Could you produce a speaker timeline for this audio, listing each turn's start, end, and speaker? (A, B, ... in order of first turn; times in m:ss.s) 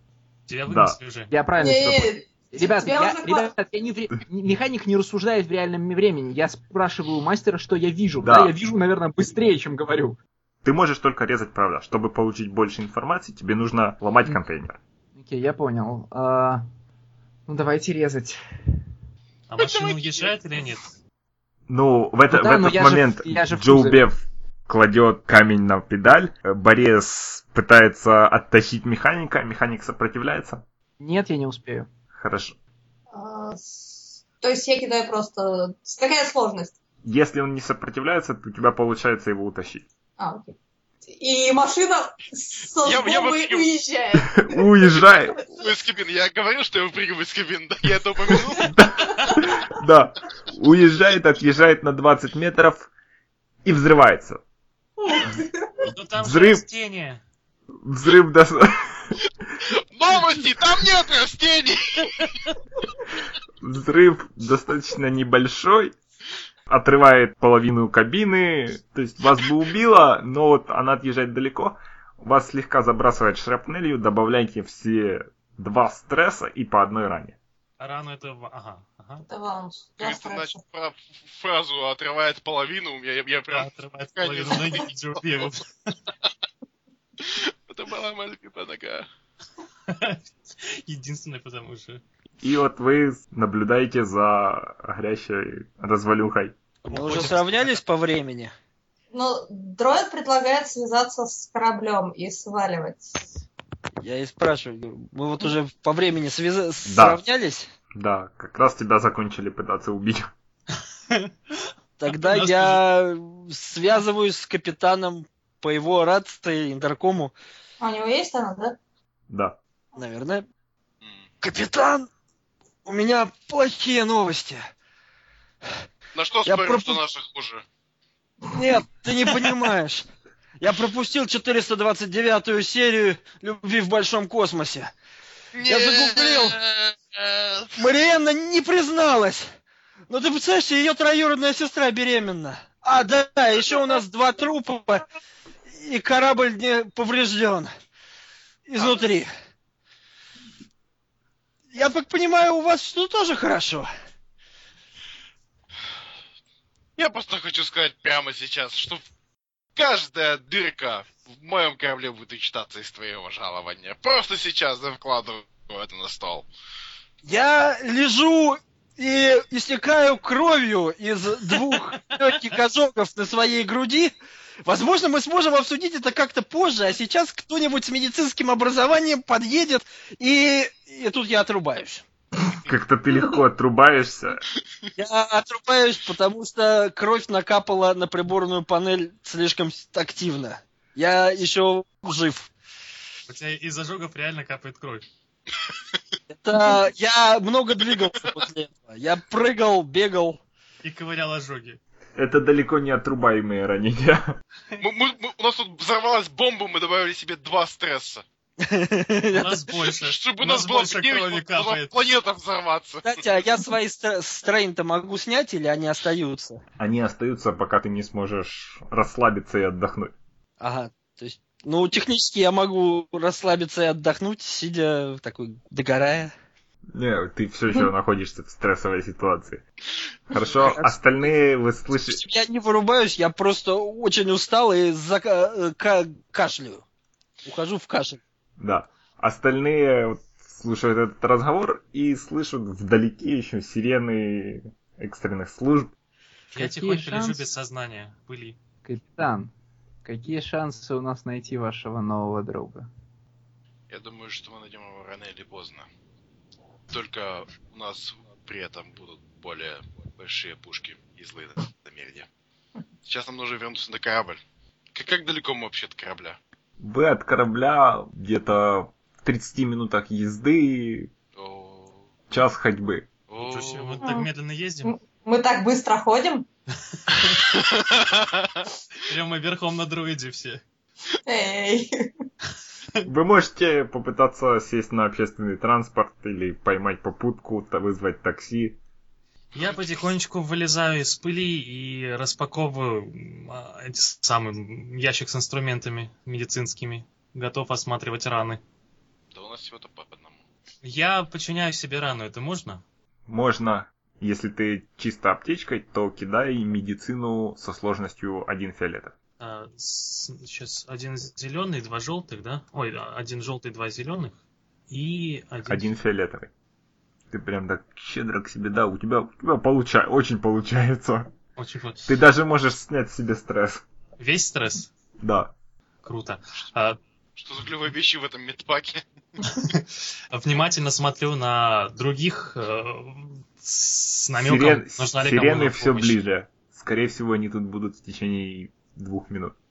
0:00.5-0:01.3 A
0:00.7-0:01.0 B
0:01.3-0:10.2 C
0:01.6-0:03.5 D
0:08.2-0:08.5 B
0:10.6-0:14.8 B
0:15.2-0:16.6 C
0:17.5-0:18.4 C
0:19.5-0:20.9 A
0:21.7-0:30.6 B
0:22.3-0:24.0 C
0:31.0-0:31.9 C
0:32.1-0:32.6 B
0:33.1-0:36.8 D
0:37.0-0:39.8 B
0:40.2-0:40.6 D
0:41.1-0:45.0 D
0:42.8-0:43.7 E
0:44.2-0:45.5 B
0:45.6-0:48.8 E
0:48.8-0:52.9 B
0:53.6-0:54.4 B
0:55.0-0:55.9 D
0:55.8-0:57.2 A
0:56.2-0:56.6 B
0:57.8-0:59.1 B
0:59.9-1:02.3 E
1:03.6-1:05.9 B
1:06.7-1:17.4 B
1:17.8-1:19.3 A
1:19.3-1:20.6 D
1:20.0-1:24.9 E
1:23.5-1:25.9 A
1:27.2-1:29.1 E
1:29.9-1:32.0 A
1:32.4-1:36.6 B
1:36.9-1:37.8 A
1:36.9-1:38.5 F
1:39.1-1:43.2 D
1:44.0-1:47.7 F
1:46.8-1:47.2 B
1:47.9-1:50.3 B
1:51.1-1:52.8 A
1:52.0-1:57.3 F
1:57.8-1:58.8 D
1:59.3-1:59.6 B
2:00.0-2:00.4 F
2:01.0-2:01.3 E
2:01.4-2:02.1 F
2:02.8-2:04.6 F
2:06.1-2:07.6 E
2:06.4-2:07.0 F
2:08.5-2:10.1 F
2:10.6-2:14.9 F
2:15.6-2:17.8 E
2:15.7-2:16.6 F
2:17.8-2:19.5 F
2:20.1-2:25.0 F
2:25.7-2:27.7 F
2:28.7-2:29.3 F
2:31.7-2:33.9 F
2:37.0-2:39.0 E
2:39.8-2:46.5 E
2:47.2-2:54.1 F
2:54.6-3:02.0 F
3:02.7-3:04.4 B
3:05.0-3:12.5 F
3:13.3-3:15.1 A
3:15.6-3:16.0 E
3:16.3-3:20.4 F
3:20.8-3:21.8 A
3:22.2-3:24.4 B
3:24.8-3:28.2 E
3:28.6-3:29.6 F
3:29.3-3:32.0 A
3:30.0-3:33.2 E
3:33.0-3:36.6 F
3:36.8-3:40.1 B
3:40.6-3:46.3 F
3:46.9-3:49.6 B
3:50.3-3:52.2 B
3:50.4-3:51.3 F
3:52.0-3:56.8 F
3:57.4-3:58.2 F
3:58.6-4:05.9 B
4:06.5-4:08.6 A
4:06.6-4:07.4 C
4:08.8-4:09.5 C
4:10.0-4:12.9 C
4:13.9-4:15.9 E
4:16.9-4:22.3 E
4:23.1-4:24.4 E
4:24.9-4:26.4 E
4:26.8-4:31.1 B
4:31.4-4:32.0 E
4:32.3-4:33.1 B
4:33.3-4:34.1 E
4:33.4-4:34.9 A
4:34.0-4:34.3 D
4:34.8-4:36.5 D
4:36.9-4:37.4 A
4:37.2-4:38.7 E
4:39.0-4:40.6 A
4:41.3-4:42.1 D
4:43.0-4:48.8 B
4:49.5-4:50.1 E
4:49.5-4:58.6 A
4:59.3-5:00.4 E
5:00.8-5:02.8 A
5:03.3-5:09.1 B
5:09.4-5:14.4 A
5:14.9-5:15.9 A
5:15.7-5:16.5 B
5:17.3-5:21.3 B
5:21.6-5:22.1 A
5:22.1-5:23.8 B
5:24.2-5:24.9 A
5:25.2-5:25.5 B
5:26.0-5:27.0 A
5:27.4-5:29.0 E
5:29.5-5:36.2 A
5:34.4-5:39.6 B